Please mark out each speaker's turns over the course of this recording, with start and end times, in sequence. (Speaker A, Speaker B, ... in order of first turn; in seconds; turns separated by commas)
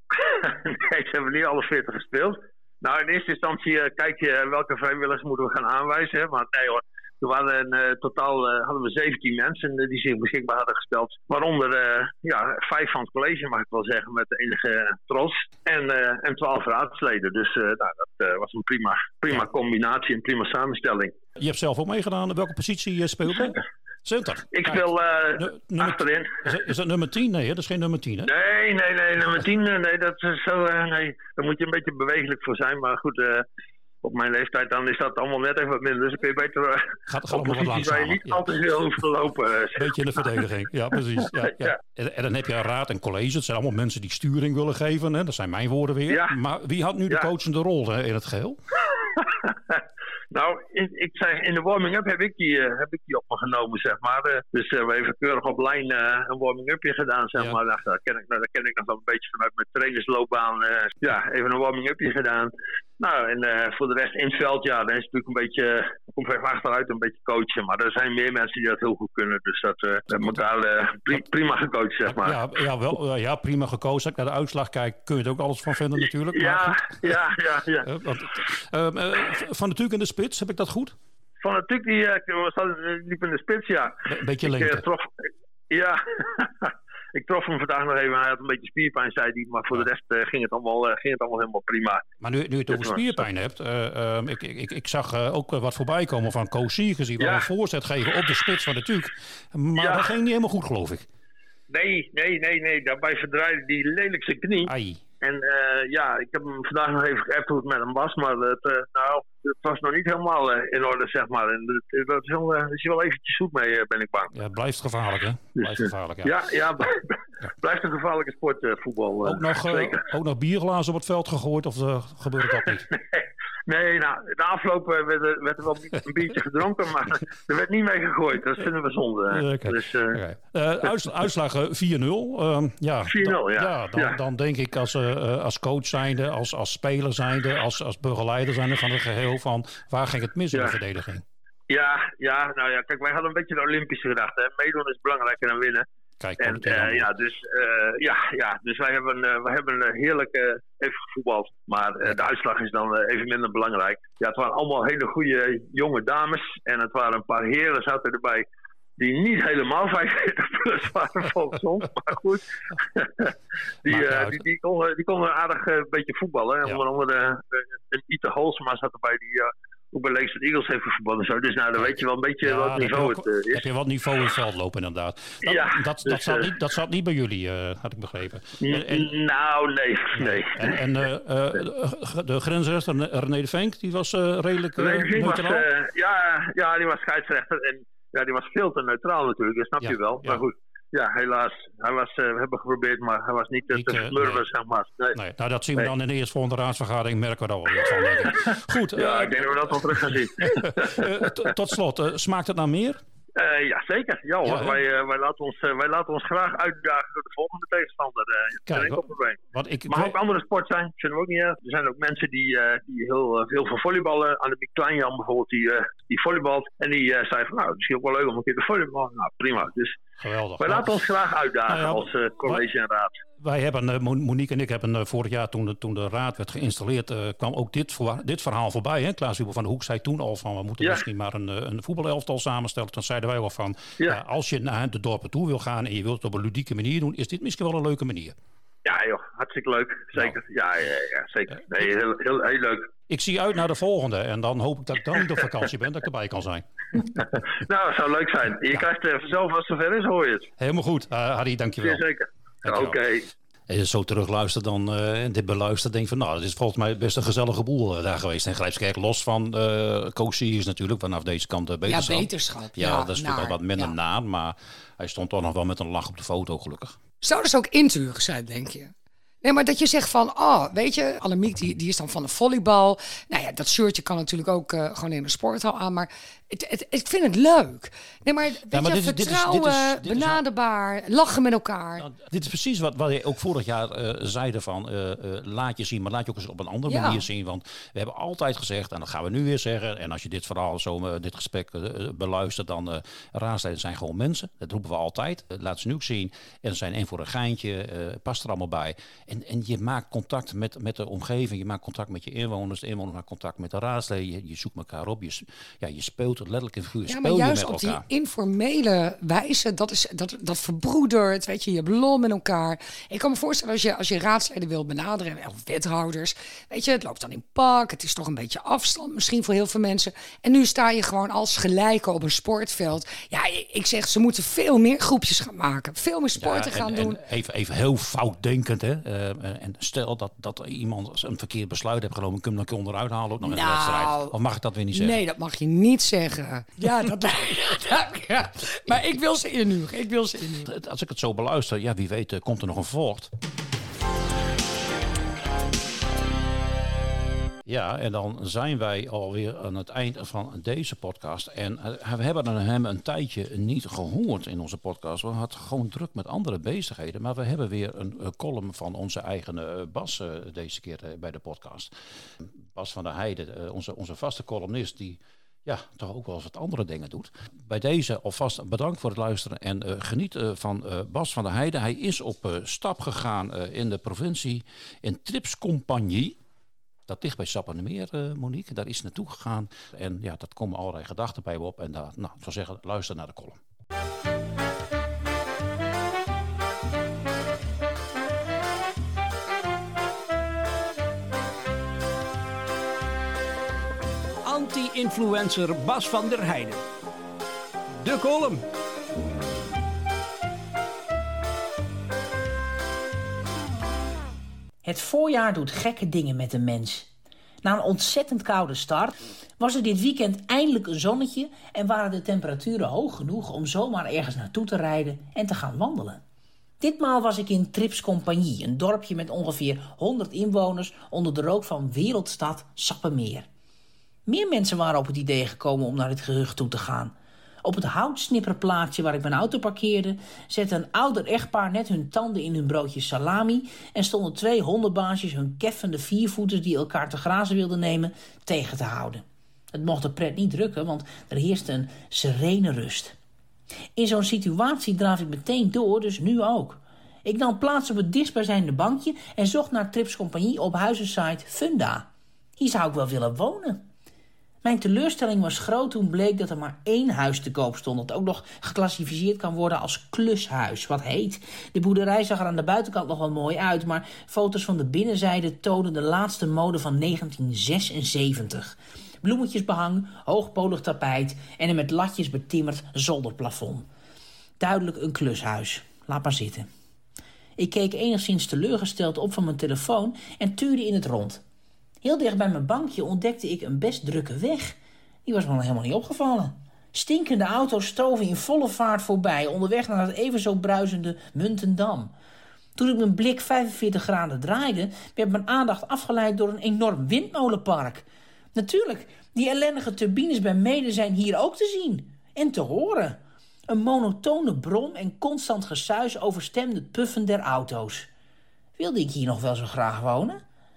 Speaker A: 0.1-21.1, Speaker B: 21.4-28.3, Speaker A: 24.5-26.5, Speaker A: 28.3-33.4, Speaker A: 34.0-40.4, Speaker B: 37.1-38.5, Speaker B: 39.8-48.6, Speaker A: 46.1-46.3, Speaker A: 49.1-72.4, Speaker B: 70.1-70.4, Speaker B: 72.1-77.2, Speaker A: 76.3-77.9, Speaker B: 77.8-81.0, Speaker A: 81.4-85.1, Speaker B: 84.0-84.8, Speaker A: 85.7-92.0, Speaker B: 92.2-101.1, Speaker A: 92.7-93.2, Speaker A: 97.2-97.5, Speaker A: 99.8-100.1, Speaker A: 101.7-114.3, Speaker B: 104.6-105.0, Speaker B: 114.3-116.9, Speaker A: 115.6-120.0, Speaker B: 119.2-122.9, Speaker A: 122.9-130.2, Speaker B: 129.3-141.2, Speaker A: 133.1-134.2, Speaker A: 141.7-145.8, Speaker B: 146.2-147.1, Speaker A: 146.4-158.4, Speaker A: 159.0-163.3, Speaker A: 163.8-173.7, Speaker B: 163.8-164.4, Speaker B: 171.8-179.1, Speaker A: 175.4-176.5, Speaker A: 178.6-180.8, Speaker B: 180.1-185.7, Speaker A: 184.8-195.2, Speaker B: 189.8-190.4, Speaker B: 193.7-194.4, Speaker B: 195.1-203.0, Speaker A: 197.9-201.3, Speaker A: 203.3-209.4, Speaker B: 204.4-204.8, Speaker B: 208.7-210.2, Speaker A: 209.9-220.0, Speaker B: 220.2-220.9, Speaker A: 220.6-223.2, Speaker B: 221.7-222.6, Speaker B: 223.4-238.3, Speaker A: 238.8-242.9, Speaker B: 240.1-240.4, Speaker B: 243.1-247.4, Speaker A: 247.5-250.5, Speaker B: 250.6-252.0, Speaker A: 251.8-253.3, Speaker B: 252.6-253.0, Speaker B: 253.7-267.0, Speaker C: 261.9-263.9, Speaker C: 267.2-268.9, Speaker C: 269.4-282.1, Speaker B: 278.7-280.4, Speaker B: 282.0-308.0, Speaker C: 286.9-287.3, Speaker C: 307.1-327.2, Speaker B: 326.4-335.2, Speaker C: 333.4-334.3, Speaker C: 334.9-340.7, Speaker B: 340.6-343.3, Speaker B: 347.6-376.4, Speaker B: 377.1-383.6, Speaker D: 394.4-396.8, Speaker D: 398.0-398.6, Speaker E: 404.8-407.1, Speaker E: 407.6-416.2, Speaker E: 416.8-423.5, Speaker E: 424.3-443.1, Speaker E: 443.9-453.9, Speaker E: 454.6-473.9, Speaker E: 474.6-476.7, Speaker E: 477.6-481.4, Speaker E: 482.0-492.1, Speaker E: 492.8-508.1, Speaker E: 508.8-510.4